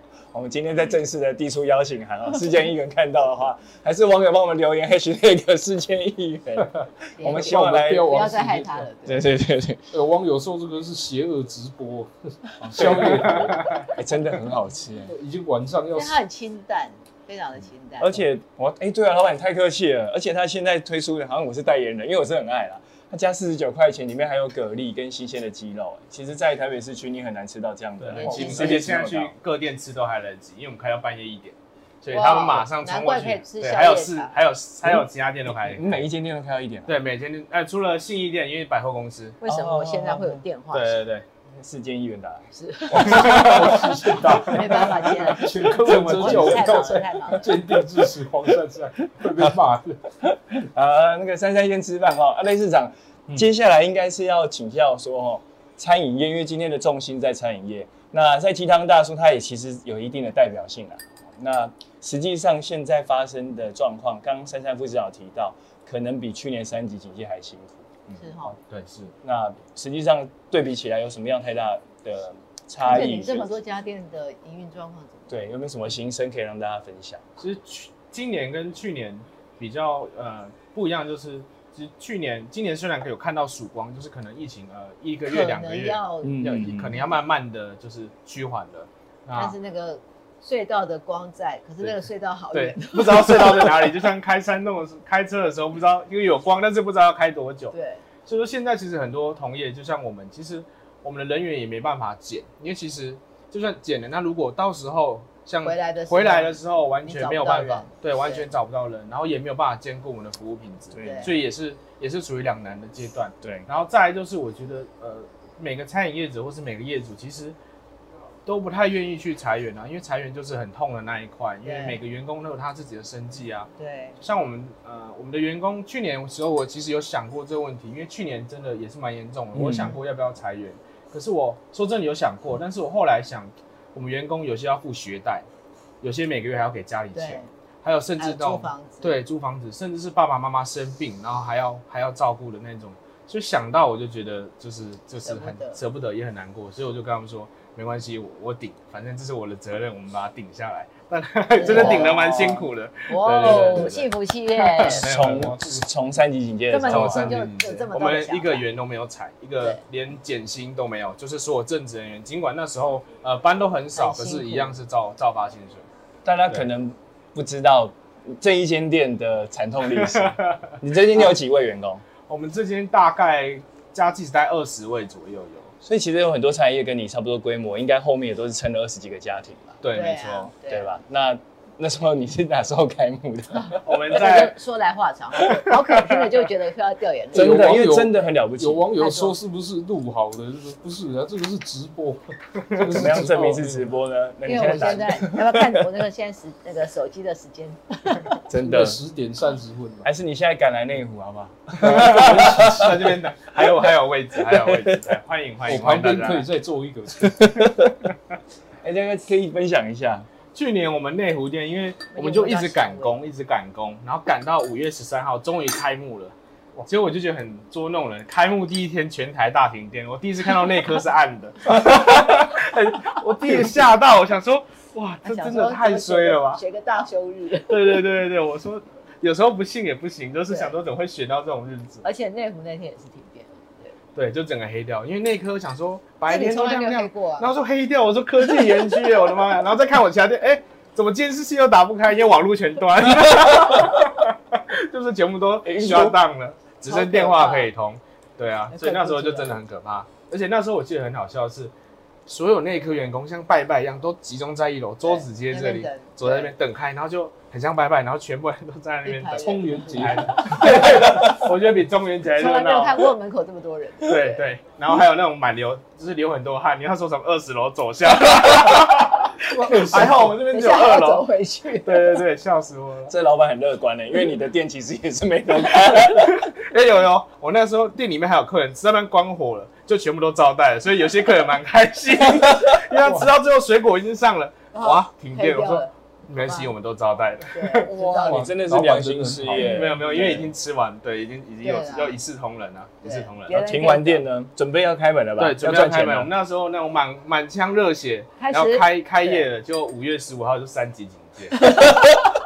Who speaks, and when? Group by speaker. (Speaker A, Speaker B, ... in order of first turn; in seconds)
Speaker A: 0.3-8.2, 9.1-9.8, 12.6-15.1, 18.0-29.3, 34.9-37.0, 39.5-40.4, 41.5-44.4, 45.7-46.8, 49.2-49.6, 50.2-68.0, 69.2-73.5, 75.3-77.2, 86.2-87.0, 110.9-111.4, 129.5-130.0, 151.6-152.7, 153.4-153.8, 154.8-157.3, 166.2-172.0, 175.8-179.8, 180.7-184.0, 187.3-188.9, 192.8-195.6, 198.5-199.0, 200.0-205.1, 207.2-208.0, 208.8-210.3, 245.7-246.2, 273.1-276.4, 287.9-290.4, 293.5-296.3
Speaker B: 7.2-9.2, 15.9-18.2, 28.1-28.9, 32.1-34.4, 39.4-41.0, 42.5-47.6, 68.2-68.6, 72.8-75.5, 85.3-87.1, 89.4-93.9, 97.7-98.0, 105.6-108.5, 111.0-111.3, 121.6-122.0, 123.8-124.2, 137.1-137.5, 138.2-139.2, 145.2-145.8, 151.6-155.1, 156.7-158.7, 163.9-164.8, 179.9-180.9, 183.6-188.0, 188.9-189.4, 194.4-198.4, 212.1-213.2, 225.2-228.0, 230.5-230.8, 232.0-234.0, 236.3-237.5, 246.9-247.7, 248.7-249.6, 255.0-256.5, 259.0-261.3, 262.3-264.5, 269.9-272.2, 284.7-286.7, 287.5-288.5, 289.6-290.4, 291.6-292.2, 293.0-294.2, 298.4-299.5, 301.6-302.1
Speaker C: 7.2-8.9, 9.9-13.8, 15.1-16.2, 43.0-50.1, 187.3-193.9, 198.6-200.1, 201.8-203.0, 205.7-207.7, 259.4-260.8, 269.5-270.4, 288.1-289.9
Speaker D: 13.3-13.8, 28.0-36.0, 36.9-39.4, 40.7-41.2, 43.2-44.8, 45.7-46.7, 68.5-69.1, 77.4-89.6, 92.5-97.7, 98.3-117.6, 118.5-123.7, 124.2-135.5, 136.0-155.8, 156.9-165.9, 170.0-170.7, 172.3-175.7, 179.8-180.5, 183.8-184.6, 185.9-186.2, 201.8-206.5, 210.5-216.3, 216.9-226.6, 227.7-232.1, 234.2-251.7, 252.3-263.1, 264.0-271.2, 271.8-273.1, 275.7-287.9, 289.6-293.5, 295.4-302.1